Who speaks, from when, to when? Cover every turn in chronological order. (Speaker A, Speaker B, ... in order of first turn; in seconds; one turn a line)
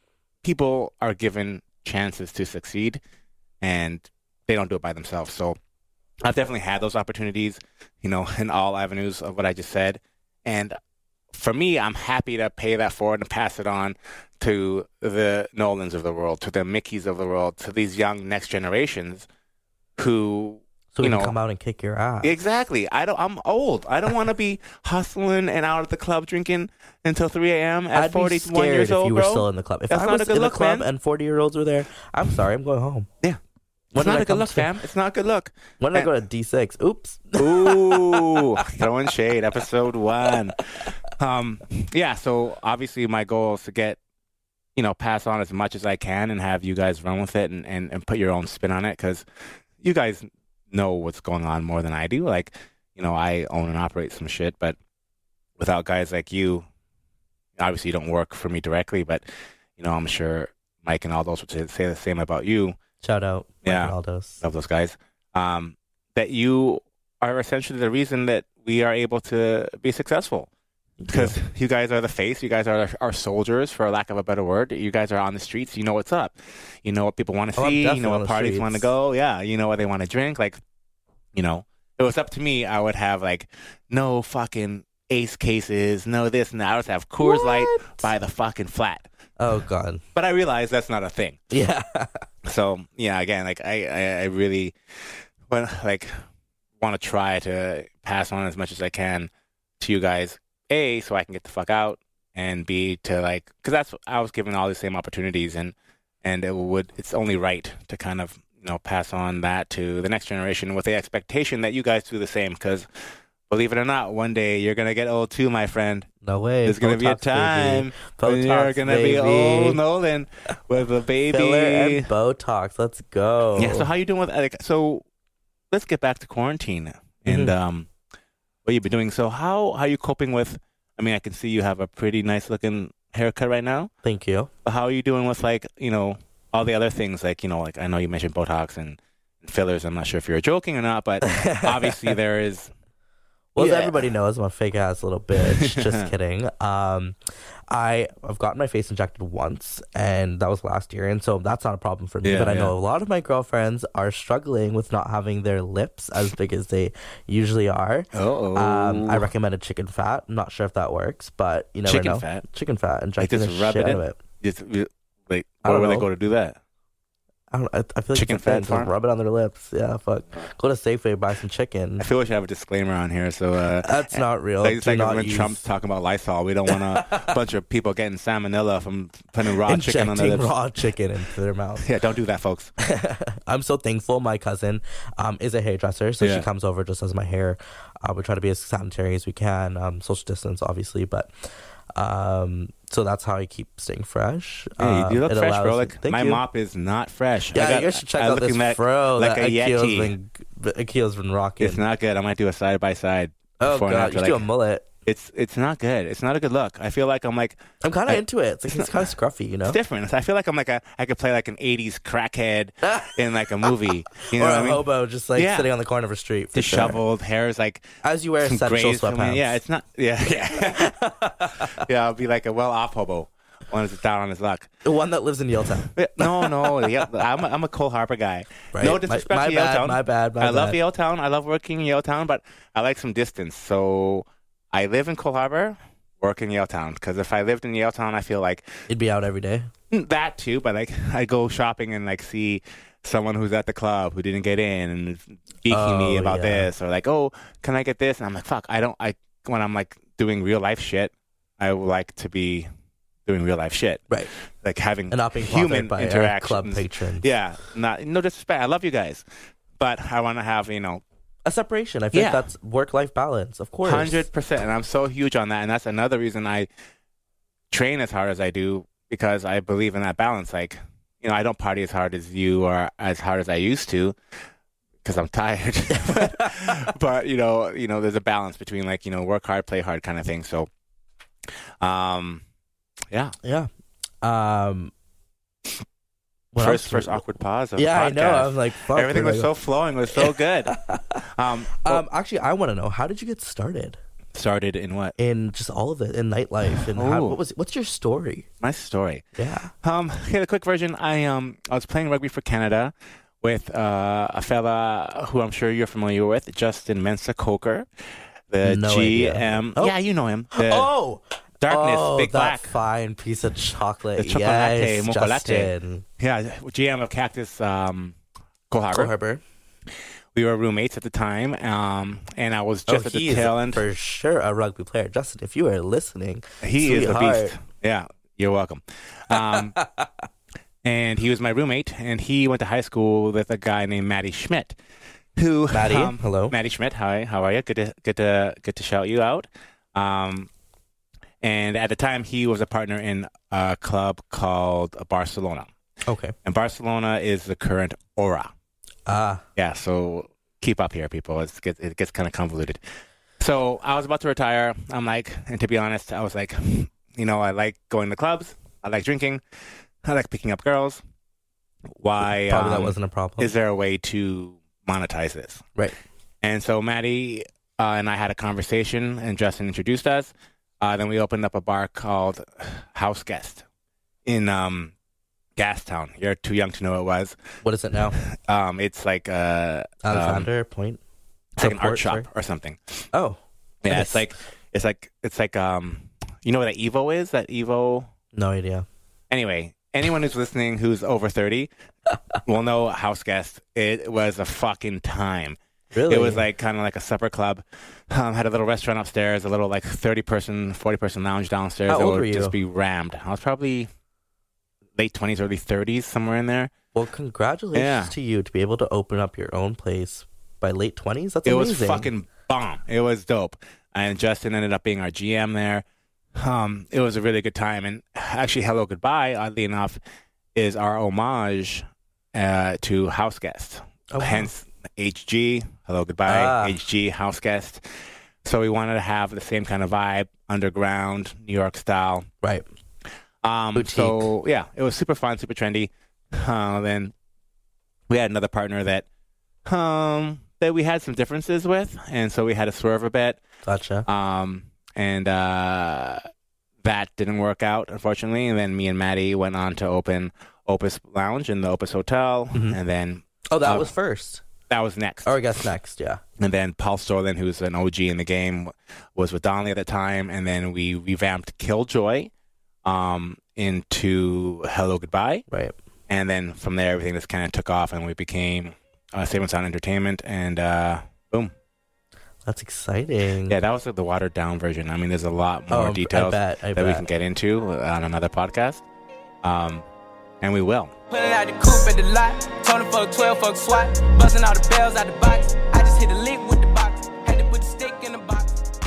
Speaker A: 0.4-3.0
Speaker A: 3.6-5.6
Speaker A: 6.2-10.8
Speaker A: 11.3-19.3
Speaker A: 20.0-21.4
Speaker B: 20.9-22.4
Speaker A: 22.2-30.9
Speaker B: 27.9-33.1
Speaker B: 33.9-34.7
Speaker A: 34.0-36.1
Speaker B: 35.8-38.6
Speaker A: 37.4-44.0
Speaker A: 44.8-49.2
Speaker A: 49.8-54.8
Speaker A: 55.6-56.7
Speaker A: 57.6-59.2
Speaker A: 59.8-62.8
Speaker B: 63.0-64.4
Speaker A: 63.6-70.5
Speaker B: 71.0-71.4
Speaker A: 71.1-80.6
Speaker B: 77.6-78.9
Speaker A: 81.3-89.1
Speaker B: 87.2-88.1
Speaker B: 89.4-90.0
Speaker A: 90.2-91.4
Speaker B: 91.5-92.3
Speaker A: 92.4-94.8
Speaker A: 95.5-96.2
Speaker A: 96.8-112.9
Speaker A: 113.5-116.1
Speaker B: 116.2-119.8
Speaker A: 116.7-122.1
Speaker B: 121.3-123.9
Speaker A: 123.6-125.0
Speaker A: 125.7-127.9
Speaker B: 127.3-127.5
Speaker A: 128.7-133.9
Speaker B: 134.0-134.5
Speaker A: 134.7-142.7
Speaker B: 141.2-142.1
Speaker B: 143.6-147.2
Speaker A: 143.6-144.1
Speaker A: 145.4-146.1
Speaker B: 147.7-164.2
Speaker A: 152.2-152.7
Speaker A: 158.1-159.3
Speaker A: 161.9-162.4
Speaker A: 163.2-166.6
Speaker B: 165.7-166.1
Speaker B: 167.5-172.1
Speaker A: 168.1-168.9
Speaker A: 172.0-180.5
Speaker B: 173.8-175.6
Speaker B: 176.7-177.3
Speaker B: 179.6-181.9
Speaker A: 181.8-182.7
Speaker B: 182.8-191.3
Speaker A: 186.2-186.4
Speaker B: 192.0-196.4
Speaker A: 194.8-200.1
Speaker B: 197.5-201.8
Speaker A: 201.6-204.4
Speaker B: 203.6-204.9
Speaker A: 205.1-208.2
Speaker B: 207.8-209.8
Speaker A: 209.7-215.7
Speaker B: 212.8-217.0
Speaker A: 216.6-217.9
Speaker B: 218.0-219.6
Speaker A: 218.4-221.0
Speaker B: 220.8-221.8
Speaker A: 221.6-224.7
Speaker B: 224.8-226.8
Speaker A: 225.9-238.7
Speaker B: 228.7-230.8
Speaker B: 238.9-239.7
Speaker A: 239.9-252.7
Speaker B: 245.7-246.7
Speaker A: 253.3-254.1
Speaker A: 254.6-259.2
Speaker B: 255.1-257.3
Speaker A: 259.8-261.0
Speaker B: 261.4-264.3
Speaker A: 262.1-262.5
Speaker A: 263.8-266.7
Speaker A: 267.7-274.2
Speaker A: 275.0-280.7
Speaker B: 276.1-276.5
Speaker A: 281.8-282.4
Speaker B: 283.4-283.7
Speaker B: 284.2-284.9
Speaker B: 286.5-289.5
Speaker A: 286.6-292.0
Speaker B: 290.1-291.2
Speaker B: 291.8-294.0
Speaker A: 294.3-295.2
Speaker B: 295.2-298.5
Speaker A: 296.8-297.4
Speaker A: 298.6-299.2
Speaker B: 299.4-299.7
Speaker A: 299.8-307.9
Speaker A: 308.5-310.9
Speaker B: 308.6-309.9
Speaker B: 310.5-316.1
Speaker A: 311.6-312.7
Speaker A: 314.2-318.2
Speaker A: 318.7-319.1
Speaker B: 318.9-319.4
Speaker A: 320.3-323.8
Speaker B: 322.9-327.6
Speaker A: 326.6-329.8
Speaker B: 329.3-330.1
Speaker A: 330.8-334.8
Speaker A: 335.4-340.5
Speaker B: 335.7-336.6
Speaker A: 341.4-345.7
Speaker B: 346.1-346.3
Speaker A: 346.4-348.5
Speaker B: 349.1-349.4
Speaker A: 349.6-352.8
Speaker A: 353.4-359.4
Speaker A: 360.0-361.0
Speaker A: 361.9-365.6
Speaker B: 362.5-363.5
Speaker A: 366.4-373.6
Speaker A: 374.2-374.9
Speaker A: 375.6-377.4
Speaker B: 377.6-378.2
Speaker A: 378.1-380.5
Speaker B: 380.0-381.0
Speaker A: 381.6-382.9
Speaker B: 381.6-382.3
Speaker B: 383.1-384.3
Speaker A: 383.8-388.1
Speaker B: 388.3-388.9
Speaker A: 389.3-391.7
Speaker A: 392.4-403.9
Speaker B: 395.9-396.5
Speaker B: 401.9-402.6
Speaker A: 405.0-406.7
Speaker B: 406.9-412.1
Speaker A: 407.8-408.1
Speaker A: 411.5-415.8
Speaker A: 416.4-420.0
Speaker A: 420.6-427.8
Speaker B: 424.1-424.5
Speaker B: 426.3-426.8
Speaker A: 428.4-432.3
Speaker A: 433.4-437.1
Speaker B: 433.8-434.3
Speaker A: 438.1-439.1
Speaker A: 439.7-443.4
Speaker B: 443.6-444.1
Speaker A: 444.1-446.2
Speaker A: 446.8-453.9
Speaker B: 452.5-452.8
Speaker B: 453.5-454.4
Speaker A: 454.7-455.4
Speaker B: 455.2-456.2
Speaker A: 456.4-462.3
Speaker A: 462.9-465.4
Speaker A: 466.1-471.5
Speaker B: 472.5-473.6
Speaker A: 473.5-478.9
Speaker B: 475.7-477.0
Speaker A: 479.4-479.9
Speaker A: 480.4-480.9
Speaker C: 481.1-488.7